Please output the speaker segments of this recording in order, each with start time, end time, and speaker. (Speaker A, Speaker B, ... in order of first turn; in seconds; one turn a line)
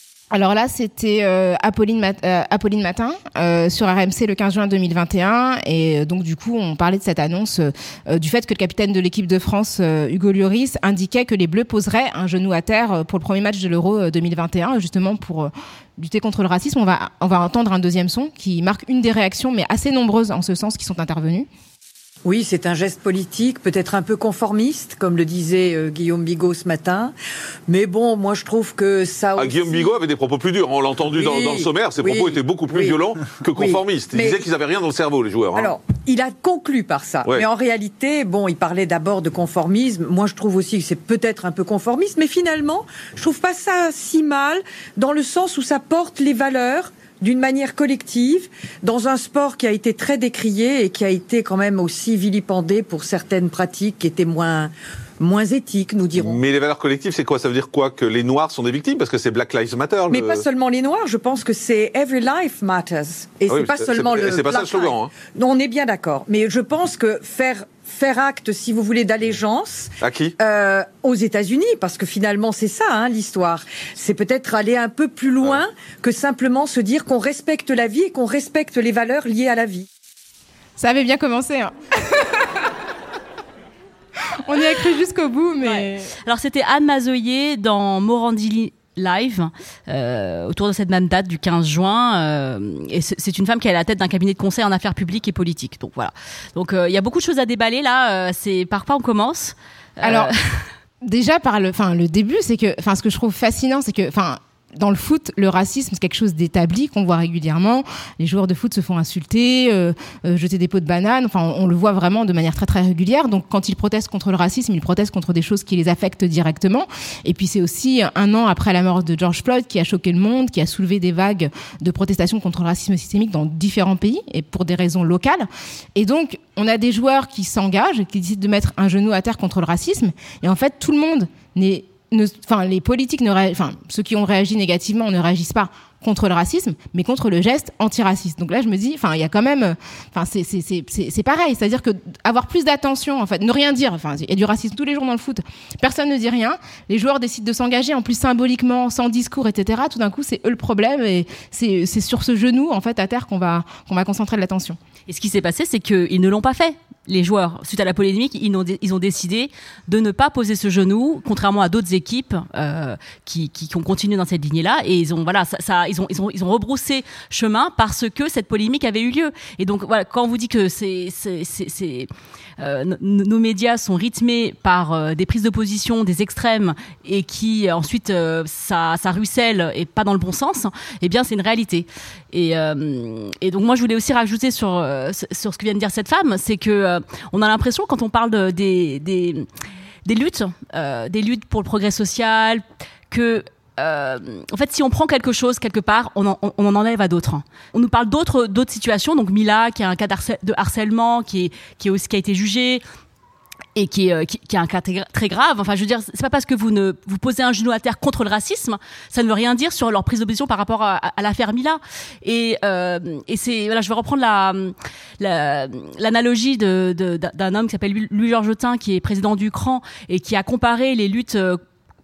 Speaker A: 0.3-21.5
Speaker B: 22.2-27.1
Speaker B: 27.7-29.9
Speaker C: 29.4-35.7
Speaker B: 31.1-33.0
Speaker B: 33.5-34.4
Speaker B: 35.5-56.4
Speaker C: 56.1-60.4
Speaker B: 60.1-79.9
Speaker C: 63.5-65.1
Speaker C: 70.0-70.3
Speaker A: 80.8-82.6
Speaker A: 84.5-86.1
Speaker D: 85.6-100.7
Speaker A: 100.0-100.3
Speaker A: 101.0-154.8
Speaker D: 155.1-172.1
Speaker D: 172.6-189.5
Speaker D: 190.1-202.8
Speaker D: 203.8-221.6